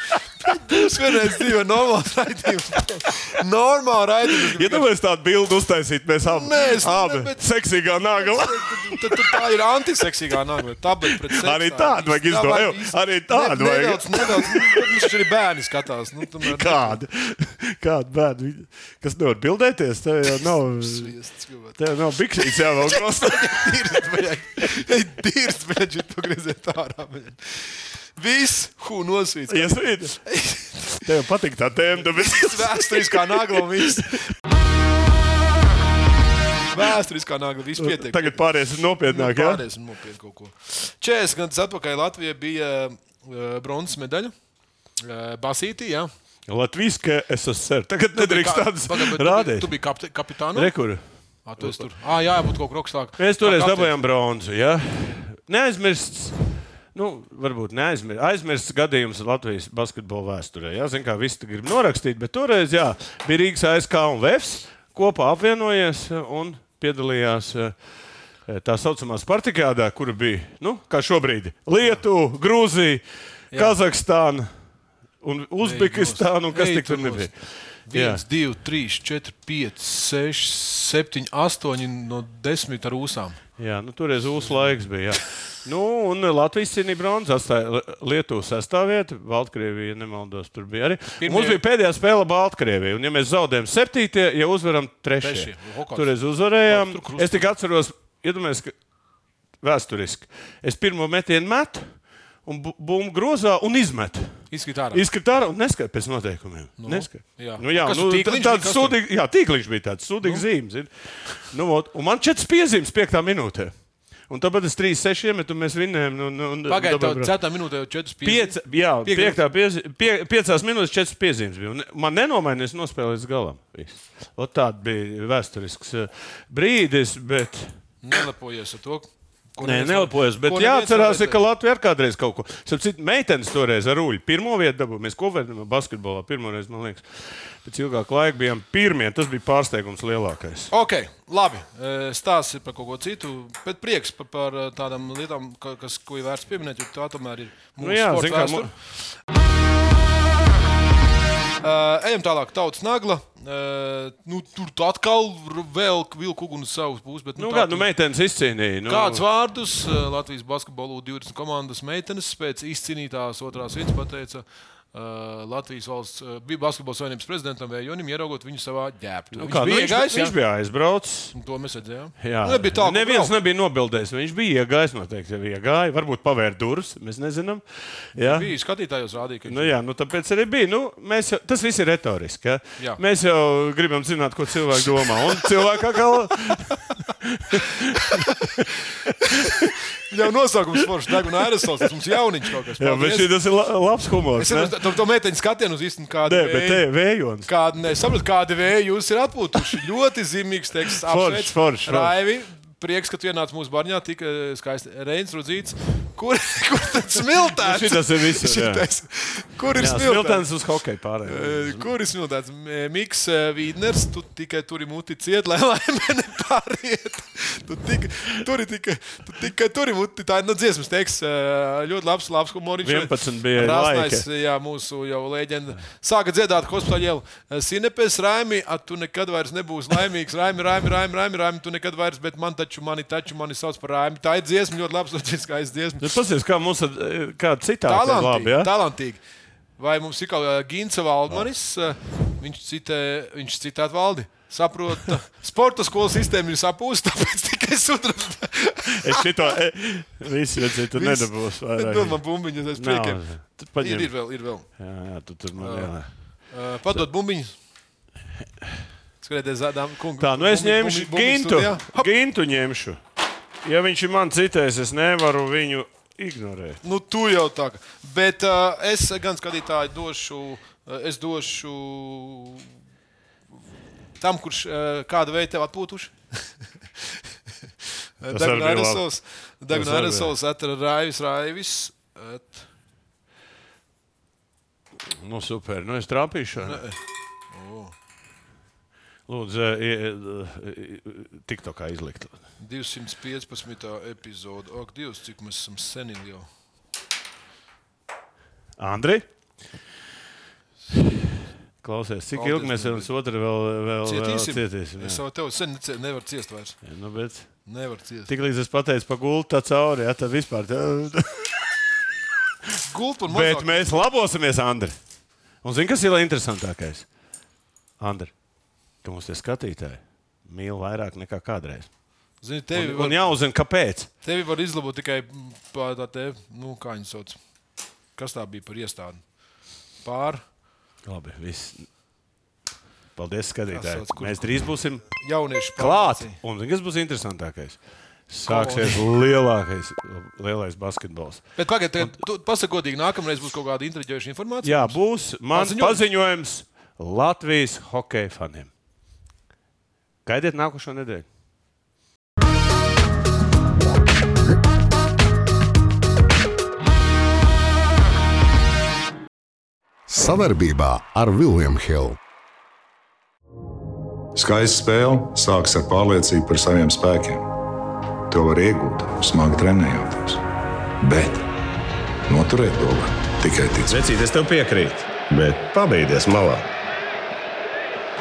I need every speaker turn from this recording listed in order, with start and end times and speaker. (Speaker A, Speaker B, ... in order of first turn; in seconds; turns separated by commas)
Speaker A: 0.4-4.9, Speaker B: 4.5-9.4, Speaker A: 6.3-7.4, Speaker A: 8.1-17.0, Speaker B: 11.3-15.0, Speaker B: 16.4-21.1, Speaker A: 20.3-21.8, Speaker B: 21.8-24.0, Speaker A: 22.4-31.0, Speaker B: 29.5-30.2, Speaker B: 31.0-34.0, Speaker A: 32.0-34.3, Speaker A: 36.7-38.4, Speaker B: 37.8-39.6, Speaker A: 39.0-44.3, Speaker A: 45.0-46.1, Speaker B: 46.5-49.7, Speaker A: 48.1-50.7, Speaker B: 50.5-51.0, Speaker A: 51.4-54.0, Speaker B: 51.6-51.9, Speaker B: 53.2-56.4, Speaker B: 56.9-67.7, Speaker B: 68.5-74.5, Speaker B: 75.2-77.3, Speaker A: 75.6-77.3, Speaker A: 77.9-83.4, Speaker B: 77.9-78.2, Speaker B: 83.6-98.7, Speaker A: 91.2-91.6, Speaker A: 95.2-96.1, Speaker A: 96.7-97.5, Speaker B: 99.6-101.9, Speaker B: 102.4-104.4, Speaker A: 104.5-105.0, Speaker B: 104.9-113.7, Speaker A: 106.8-109.0, Speaker B: 114.3-117.3, Speaker A: 116.7-119.4, Speaker B: 118.2-127.7, Speaker A: 128.0-131.4, Speaker B: 129.6-137.1, Speaker B: 137.6-140.7, Speaker A: 140.7-148.7, Speaker B: 147.8-148.7, Speaker A: 151.6-157.9, Speaker B: 157.4-159.2, Speaker A: 158.9-170.3, Speaker B: 169.3-171.3, Speaker A: 171.3-173.3, Speaker B: 172.2-178.5, Speaker A: 178.2-179.7, Speaker B: 179.5-189.7, Speaker A: 184.9-185.7, Speaker A: 186.3-186.6, Speaker A: 187.6-193.3, Speaker B: 192.8-194.8, Speaker A: 194.4-196.8, Speaker B: 196.2-197.5, Speaker A: 197.4-210.4, Speaker B: 201.0-202.1, Speaker B: 207.6-208.8, Speaker B: 209.8-211.9, Speaker A: 211.2-236.2, Speaker B: 222.8-224.2, Speaker B: 236.0-238.7, Speaker A: 237.8-239.2, Speaker A: 239.8-249.5, Speaker B: 249.0-252.2, Speaker A: 250.7-253.2, Speaker B: 252.7-254.1, Speaker A: 253.8-254.7, Speaker B: 254.8-256.1, Speaker A: 255.6-255.9, Speaker A: 256.5-257.5, Speaker A: 259.2-262.1, Speaker B: 260.2-263.0, Speaker B: 263.6-266.8, Speaker A: 266.8-272.7, Speaker A: 274.2-276.1, Speaker A: 278.2-282.7, Speaker B: 278.3-279.1, Speaker B: 279.7-280.3, Speaker B: 285.1-286.8, Speaker A: 286.6-287.0, Speaker A: 287.5-287.9, Speaker B: 289.3-292.3, Speaker A: 292.6-296.5, Speaker B: 298.8-299.2, Speaker B: 301.8-305.2, Speaker A: 302.3-303.1, Speaker A: 304.0-306.8, Speaker B: 306.8-307.6, Speaker A: 307.7-308.3, Speaker B: 308.3-311.6, Speaker A: 312.8-314.0, Speaker B: 313.3-314.9, Speaker B: 315.6-317.1, Speaker B: 318.0-318.3, Speaker B: 319.0-321.9, Speaker A: 322.4-323.3, Speaker B: 322.7-324.1, Speaker A: 324.2-327.4, Speaker A: 328.1-329.2, Speaker A: 330.0-330.4, Speaker B: 331.0-331.9, Speaker B: 333.1-335.1, Speaker A: 333.7-336.4, Speaker B: 335.8-341.5, Speaker A: 338.4-339.0, Speaker A: 341.6-345.0, Speaker B: 344.6-348.7, Speaker A: 345.5-346.0, Speaker B: 350.2-351.2, Speaker C: 360.2-362.1, Speaker D: 364.3-367.5, Speaker D: 368.3-370.4, Speaker D: 371.0-371.4, Speaker D: 372.3-374.0, Speaker E: 373.9-376.7